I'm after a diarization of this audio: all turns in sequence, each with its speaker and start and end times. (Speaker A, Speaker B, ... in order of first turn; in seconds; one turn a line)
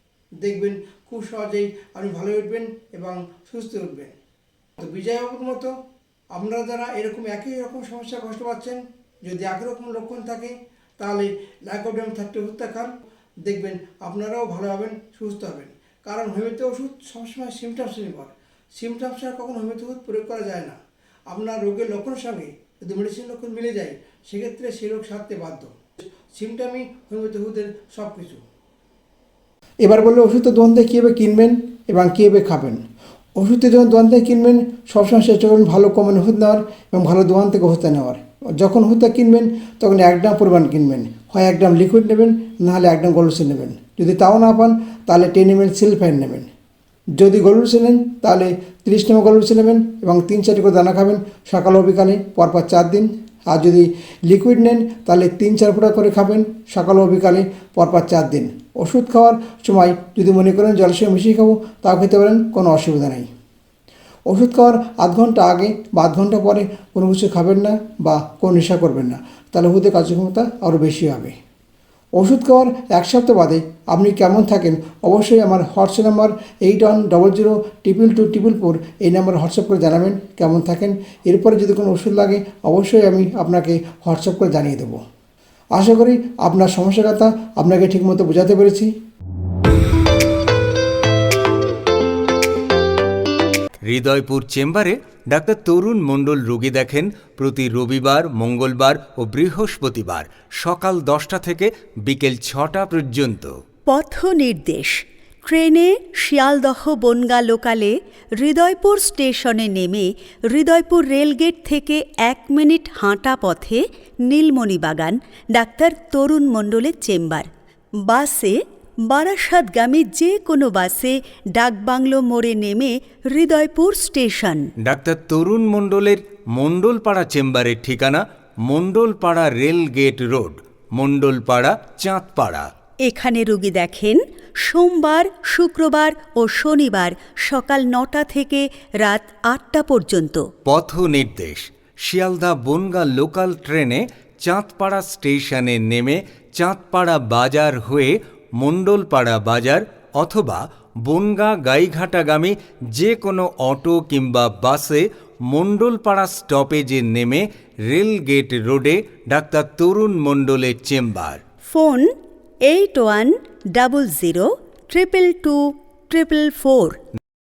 Speaker A: 0.4-4.2
Speaker A: 4.8-5.7
Speaker A: 6.3-12.9
Speaker A: 13.4-20.8
Speaker A: 21.3-28.4
Speaker A: 29.8-32.8
Speaker A: 33.4-46.5
Speaker A: 47.2-63.3
Speaker A: 64.3-71.3
Speaker A: 72.1-85.0
Speaker A: 85.7-88.9
Speaker B: 93.8-103.5
Speaker C: 103.9-117.5
Speaker C: 118.0-118.5
Speaker C: 119.1-124.7
Speaker B: 124.8-132.7
Speaker C: 133.0-140.4
Speaker B: 140.6-161.4
Speaker C: 161.7-162.1
Speaker C: 162.7-167.0